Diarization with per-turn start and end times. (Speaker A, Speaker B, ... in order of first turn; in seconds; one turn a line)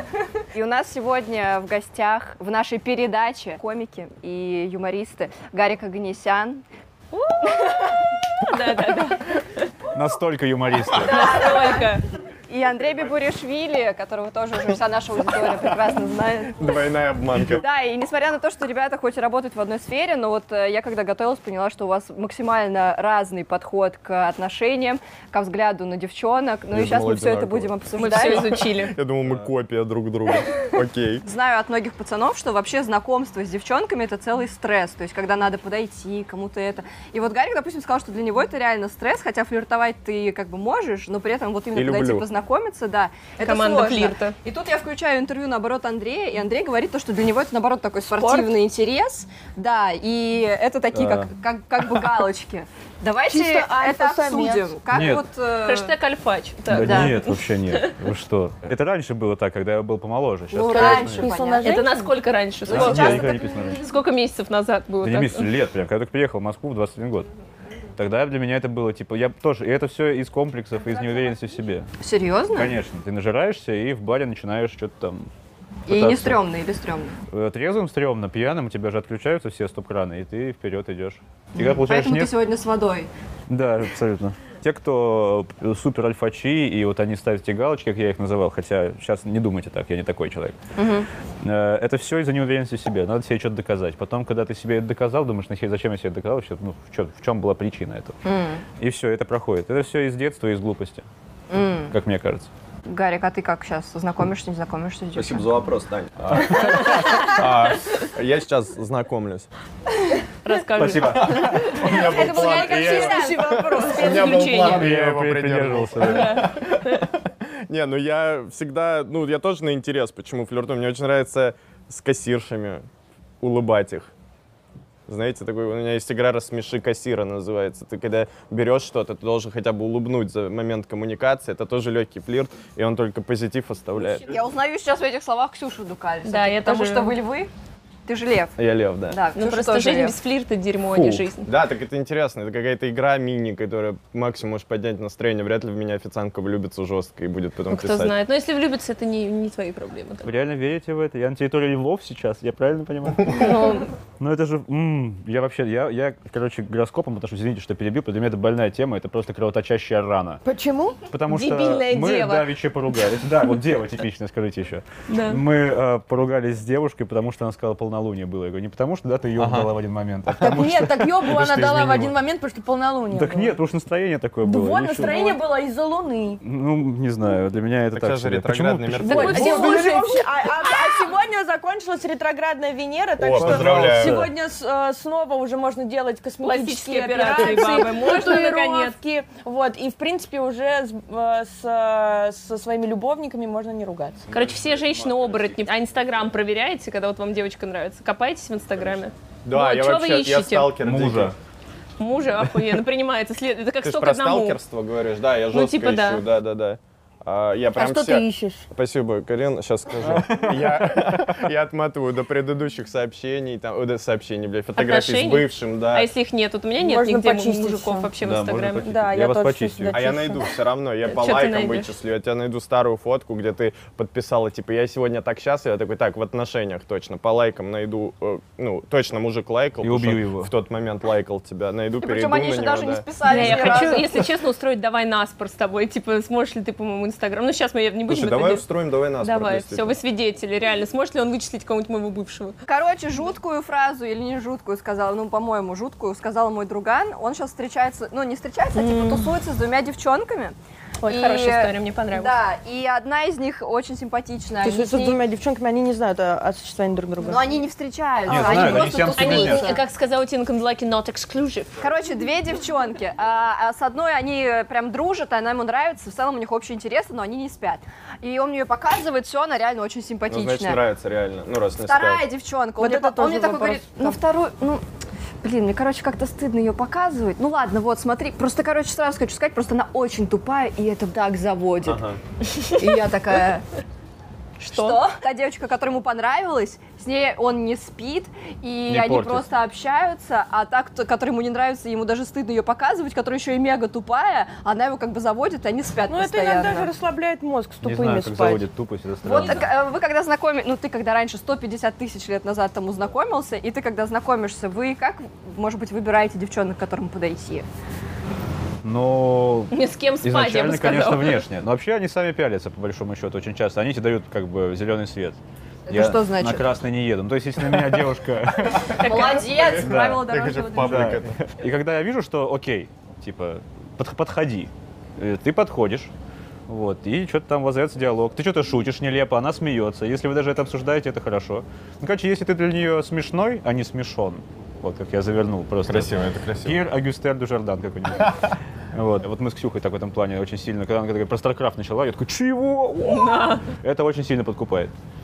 Speaker A: 0.5-6.7
Speaker B: 7.1-9.7
Speaker C: 9.9-11.3
Speaker A: 10.9-11.9
Speaker B: 11.1-12.0
Speaker A: 12.5-16.7
Speaker D: 16.6-17.6
Speaker A: 17.5-28.5
Speaker D: 26.7-27.7
Speaker B: 27.9-28.9
Speaker D: 28.3-31.2
Speaker A: 31.2-55.9
Speaker D: 41.7-42.3
Speaker B: 43.4-44.3
Speaker E: 48.1-48.5
Speaker D: 51.0-51.2
Speaker C: 51.0-51.2
Speaker E: 53.2-54.7
Speaker C: 54.9-55.2
Speaker B: 55.6-57.9
Speaker C: 56.7-61.3
Speaker A: 56.7-57.2
Speaker A: 60.5-61.8
Speaker E: 60.6-62.1
Speaker B: 61.6-65.5
Speaker A: 62.6-63.9
Speaker C: 62.7-63.8
Speaker C: 65.0-67.3
Speaker C: 68.0-71.9
Speaker A: 72.0-72.7
Speaker C: 72.5-75.3
Speaker A: 75.9-77.2
Speaker C: 75.9-76.4
Speaker C: 77.3-82.4
Speaker A: 81.5-83.1
Speaker C: 83.5-90.5
Speaker A: 90.8-91.1
Speaker C: 91.4-98.2
Speaker A: 98.2-98.6
Speaker C: 98.8-101.0
Speaker A: 101.5-101.9
Speaker C: 101.9-102.5
Speaker A: 102.9-105.6
Speaker D: 105.2-109.5
Speaker C: 106.3-106.7
Speaker A: 106.6-107.2
Speaker B: 110.4-111.3
Speaker C: 110.8-111.8
Speaker D: 111.0-122.8
Speaker A: 111.8-114.0
Speaker E: 111.9-114.5
Speaker B: 113.8-114.9
Speaker C: 114.6-116.5
Speaker B: 116.0-117.0
Speaker D: 123.4-124.1
Speaker D: 125.1-134.3
Speaker A: 134.2-137.5
Speaker B: 136.2-137.2
Speaker A: 138.1-140.2
Speaker D: 138.6-139.2
Speaker B: 139.3-141.5
Speaker D: 140.9-148.2
Speaker B: 147.7-150.3
Speaker C: 150.2-160.4
Speaker A: 153.3-153.9
Speaker E: 160.4-161.0
Speaker C: 161.1-172.2
Speaker B: 161.3-162.5
Speaker B: 165.1-165.4
Speaker D: 169.3-169.7
Speaker D: 170.2-170.6
Speaker E: 170.4-173.6
Speaker C: 173.1-175.2
Speaker E: 174.4-176.4
Speaker B: 175.0-175.4
Speaker C: 176.4-179.4
Speaker D: 177.9-179.7
Speaker B: 179.0-181.0
Speaker E: 179.0-194.3
Speaker D: 183.2-184.3
Speaker C: 183.3-184.3
Speaker B: 186.4-189.0
Speaker C: 194.3-195.8
Speaker B: 194.3-200.7
Speaker D: 199.4-201.3
Speaker C: 200.8-201.3
Speaker B: 202.0-204.6
Speaker D: 203.8-216.1
Speaker B: 205.5-206.2
Speaker E: 207.8-208.7
Speaker C: 210.0-211.3
Speaker B: 214.8-218.9
Speaker E: 216.8-218.1
Speaker C: 218.2-220.0
Speaker E: 218.8-220.4
Speaker D: 219.9-234.1
Speaker B: 221.0-221.9
Speaker C: 229.8-230.5
Speaker A: 232.0-234.1
Speaker B: 233.2-238.6
Speaker D: 238.1-240.0
Speaker B: 239.2-242.6
Speaker A: 242.7-255.2
Speaker E: 248.8-249.1
Speaker B: 251.0-252.3
Speaker E: 254.6-257.4
Speaker A: 257.2-259.8
Speaker C: 258.3-259.8
Speaker E: 258.3-258.9
Speaker B: 258.6-261.8
Speaker A: 261.8-270.8
Speaker D: 270.3-272.2
Speaker A: 271.8-274.8
Speaker E: 272.8-274.2
Speaker A: 275.4-282.0
Speaker D: 281.8-282.2
Speaker A: 282.6-283.6
Speaker B: 284.6-285.0
Speaker A: 284.6-296.9
Speaker C: 288.9-289.5
Speaker E: 296.1-298.6
Speaker C: 297.8-299.8
Speaker A: 299.2-307.7
Speaker B: 299.3-299.7
Speaker C: 308.8-326.1
Speaker B: 309.7-311.4
Speaker A: 315.9-316.7
Speaker A: 318.9-321.1
Speaker B: 319.1-319.4
Speaker D: 319.6-321.4
Speaker C: 326.7-344.9
Speaker D: 335.9-336.8
Speaker B: 343.1-343.7